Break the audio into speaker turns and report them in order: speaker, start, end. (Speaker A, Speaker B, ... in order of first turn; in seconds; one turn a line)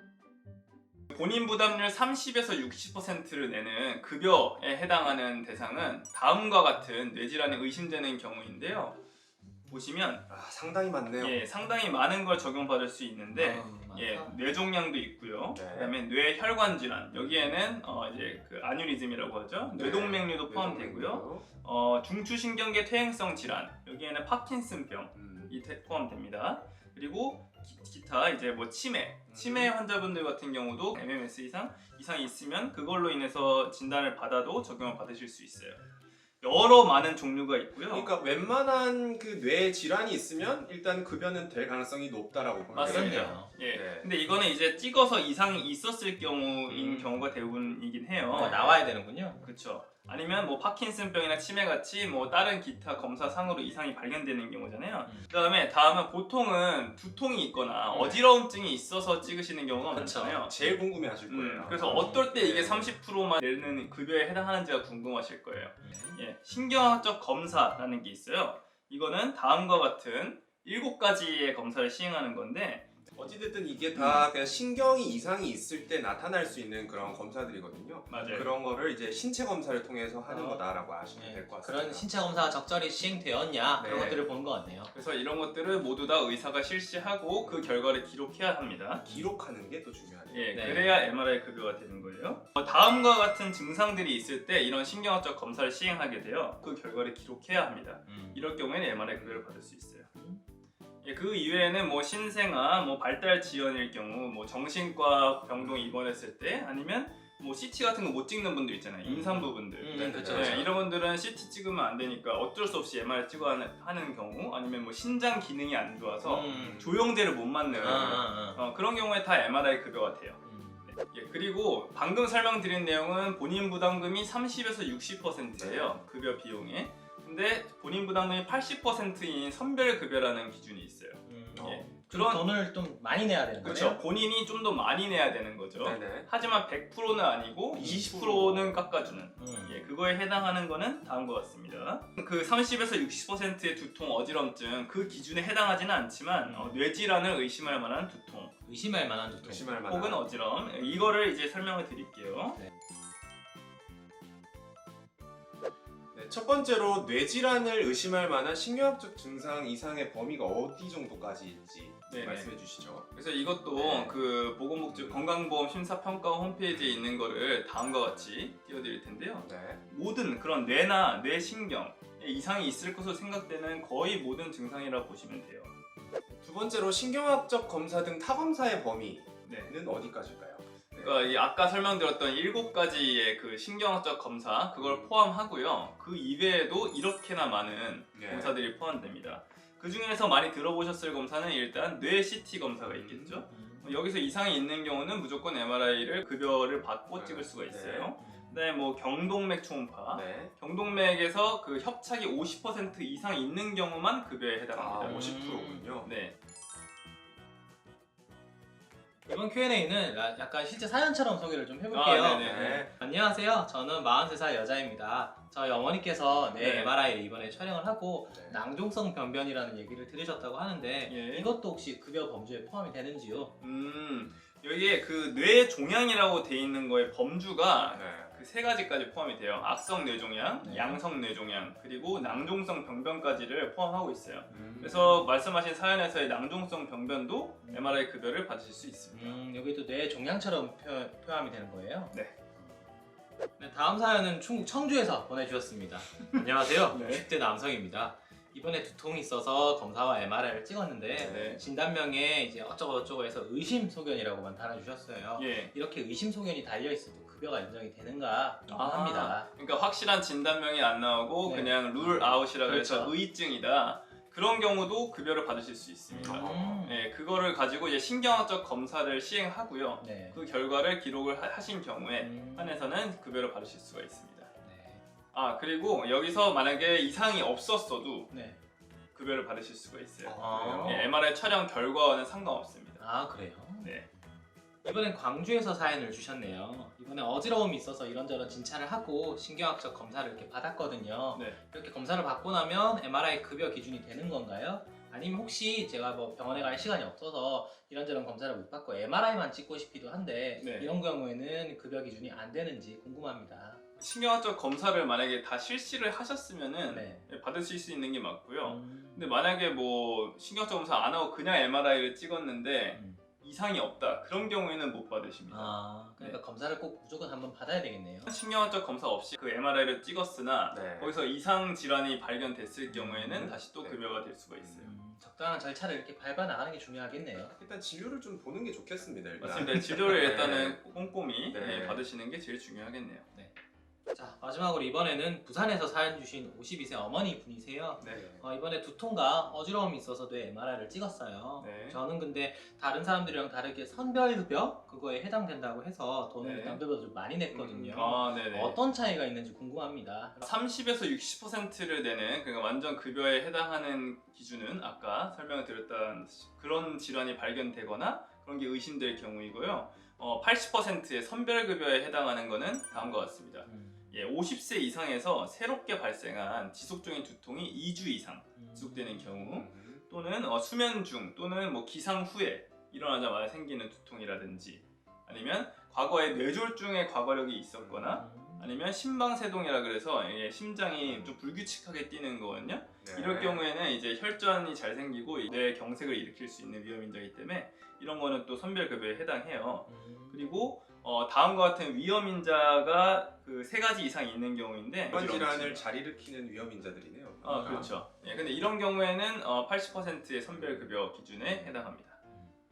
Speaker A: 1.1-9.0
Speaker A: 9.7-10.3
Speaker B: 10.3-11.4
Speaker A: 11.2-35.8
Speaker C: 13.3-14.4
Speaker B: 15.5-15.9
Speaker B: 19.7-21.4
Speaker B: 25.1-25.5
Speaker B: 29.3-29.7
Speaker A: 36.4-38.1
Speaker B: 37.9-44.1
Speaker A: 42.7-48.8
Speaker C: 42.8-43.5
Speaker C: 46.7-47.2
Speaker C: 48.3-49.5
Speaker A: 49.4-60.5
Speaker C: 55.0-55.3
Speaker C: 57.9-58.3
Speaker C: 59.9-60.5
Speaker B: 60.4-63.0
Speaker A: 61.2-72.9
Speaker C: 61.8-62.3
Speaker C: 65.8-66.2
Speaker B: 73.1-82.1
Speaker A: 78.1-78.5
Speaker C: 78.2-78.4
Speaker C: 80.2-84.9
Speaker B: 83.8-84.2
Speaker A: 84.9-89.0
Speaker B: 89.0-90.7
Speaker A: 90.3-100.1
Speaker C: 90.5-91.0
Speaker C: 98.1-98.4
Speaker B: 99.1-99.4
Speaker C: 100.2-100.4
Speaker A: 101.0-132.4
Speaker B: 105.6-106.0
Speaker C: 109.0-110.7
Speaker B: 109.9-110.8
Speaker C: 116.2-116.8
Speaker B: 116.5-117.0
Speaker B: 117.7-118.2
Speaker C: 117.8-118.6
Speaker C: 120.4-120.9
Speaker B: 125.6-125.9
Speaker C: 131.2-134.0
Speaker B: 131.5-131.9
Speaker A: 133.6-148.6
Speaker B: 135.8-136.3
Speaker B: 137.7-138.9
Speaker C: 137.8-138.1
Speaker C: 139.4-139.8
Speaker C: 146.4-146.8
Speaker C: 148.7-149.8
Speaker B: 149.4-150.3
Speaker A: 149.9-152.6
Speaker B: 156.1-163.1
Speaker A: 162.1-162.5
Speaker A: 163.1-175.7
Speaker B: 163.7-164.2
Speaker B: 164.9-165.3
Speaker B: 166.7-167.1
Speaker B: 169.4-169.8
Speaker B: 176.4-181.2
Speaker A: 179.4-179.7
Speaker A: 180.9-205.4
Speaker B: 184.8-185.1
Speaker B: 188.1-188.6
Speaker B: 192.8-193.4
Speaker C: 193.5-194.0
Speaker B: 197.1-198.1
Speaker C: 198.2-198.6
Speaker B: 200.1-200.5
Speaker B: 204.7-206.1
Speaker C: 205.0-206.0
Speaker A: 206.0-206.3
Speaker C: 209.3-223.6
Speaker A: 211.9-212.9
Speaker B: 212.4-212.9
Speaker A: 216.5-216.9
Speaker B: 218.3-218.6
Speaker A: 221.0-221.5
Speaker A: 223.6-239.4
Speaker B: 227.9-228.3
Speaker C: 230.6-231.0
Speaker C: 232.2-232.5
Speaker B: 234.5-235.1
Speaker C: 234.5-235.3
Speaker C: 237.6-238.0
Speaker C: 239.1-242.9
Speaker C: 243.6-259.5
Speaker A: 246.8-247.2
Speaker B: 251.1-251.6
Speaker A: 251.2-251.6
Speaker A: 255.3-255.7
Speaker A: 258.7-274.5
Speaker C: 261.4-263.1
Speaker C: 266.1-267.0
Speaker B: 266.2-266.8
Speaker C: 270.0-270.4
Speaker C: 272.2-272.9
Speaker C: 274.6-275.0
Speaker A: 275.3-278.3
Speaker C: 278.3-278.6
Speaker A: 279.1-283.0
Speaker B: 280.2-281.1
Speaker C: 280.4-281.1
Speaker C: 283.0-284.0
Speaker C: 284.8-303.8
Speaker A: 291.3-291.6
Speaker A: 300.6-300.9
Speaker A: 304.0-316.4
Speaker C: 306.9-307.3
Speaker C: 308.6-309.3
Speaker C: 312.9-313.2
Speaker C: 315.5-318.3
Speaker A: 318.2-324.9
Speaker B: 320.7-321.1
Speaker C: 322.9-323.6
Speaker B: 323.8-324.9
Speaker C: 324.8-327.5
Speaker B: 327.4-330.8
Speaker A: 329.4-333.3
Speaker B: 331.5-332.1
Speaker C: 334.1-350.4
Speaker B: 338.0-338.4
Speaker A: 341.6-342.0
Speaker A: 346.4-346.8
Speaker B: 347.5-348.2
Speaker A: 347.9-348.8
Speaker A: 350.4-395.8
Speaker C: 363.6-364.1
Speaker C: 368.6-369.4
Speaker B: 369.4-370.1
Speaker B: 377.8-378.1
Speaker C: 378.1-378.7
Speaker B: 381.0-381.4
Speaker B: 383.0-383.7
Speaker C: 389.9-390.7
Speaker B: 395.1-397.9
Speaker A: 397.4-402.2
Speaker C: 397.4-398.0
Speaker B: 400.5-400.9